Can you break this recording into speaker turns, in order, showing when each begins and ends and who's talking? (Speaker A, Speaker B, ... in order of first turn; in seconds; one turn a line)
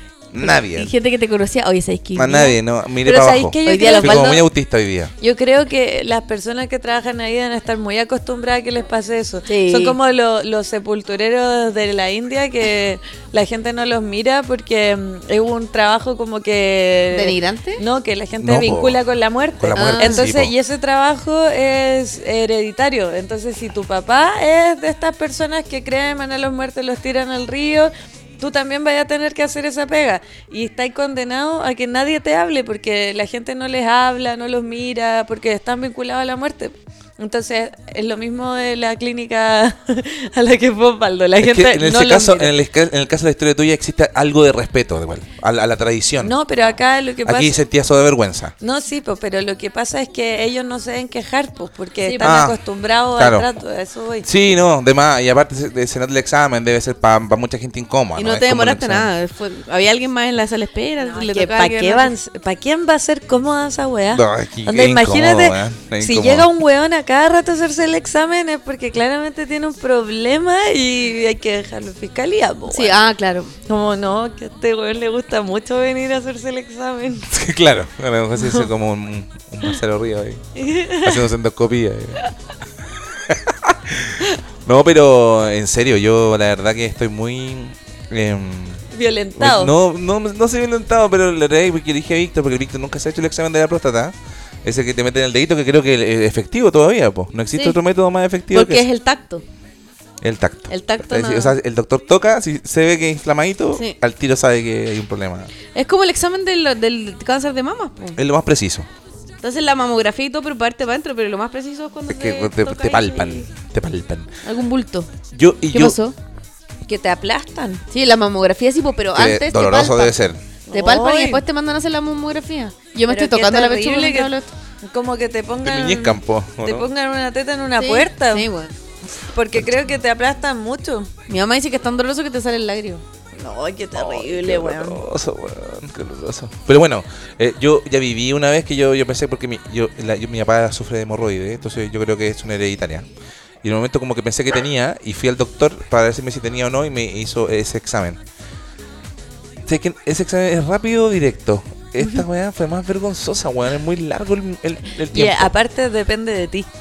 Speaker A: 0.3-0.9
Speaker B: 0.4-2.6
Speaker A: 2.1-5.1
Speaker C: 3.0-4.4
Speaker B: 3.6-4.4
Speaker C: 5.2-42.5
Speaker B: 9.5-10.0
Speaker B: 17.1-17.8
Speaker A: 18.4-19.0
Speaker A: 19.6-20.5
Speaker B: 19.7-20.2
Speaker A: 41.4-46.3
Speaker C: 46.2-47.5
Speaker A: 47.2-48.5
Speaker C: 48.6-54.3
Speaker B: 52.0-52.4
Speaker A: 52.2-52.6
Speaker A: 53.1-53.5
Speaker A: 54.2-59.1
Speaker B: 58.1-62.1
Speaker C: 61.0-73.0
Speaker A: 64.1-66.5
Speaker B: 72.7-73.5
Speaker C: 73.7-77.3
Speaker A: 77.3-80.4
Speaker C: 78.4-78.7
Speaker C: 80.5-81.3
Speaker A: 81.0-82.2
Speaker A: 83.1-88.8
Speaker C: 88.9-89.7
Speaker A: 89.4-98.8
Speaker B: 98.5-99.4
Speaker A: 100.2-105.5
Speaker B: 100.7-101.6
Speaker B: 105.7-108.2
Speaker A: 108.2-108.9
Speaker B: 109.4-113.4
Speaker A: 112.1-114.3
Speaker B: 114.4-115.1
Speaker A: 115.3-116.0
Speaker B: 115.7-116.1
Speaker C: 116.8-117.8
Speaker B: 117.9-120.1
Speaker A: 119.1-120.4
Speaker C: 120.7-121.4
Speaker B: 120.7-124.5
Speaker C: 123.1-128.5
Speaker A: 125.6-126.9
Speaker B: 127.8-128.7
Speaker C: 129.3-131.1
Speaker B: 131.3-133.0
Speaker C: 133.4-135.0
Speaker A: 133.9-143.1
Speaker A: 143.6-148.2
Speaker A: 149.7-155.5
Speaker C: 155.1-156.7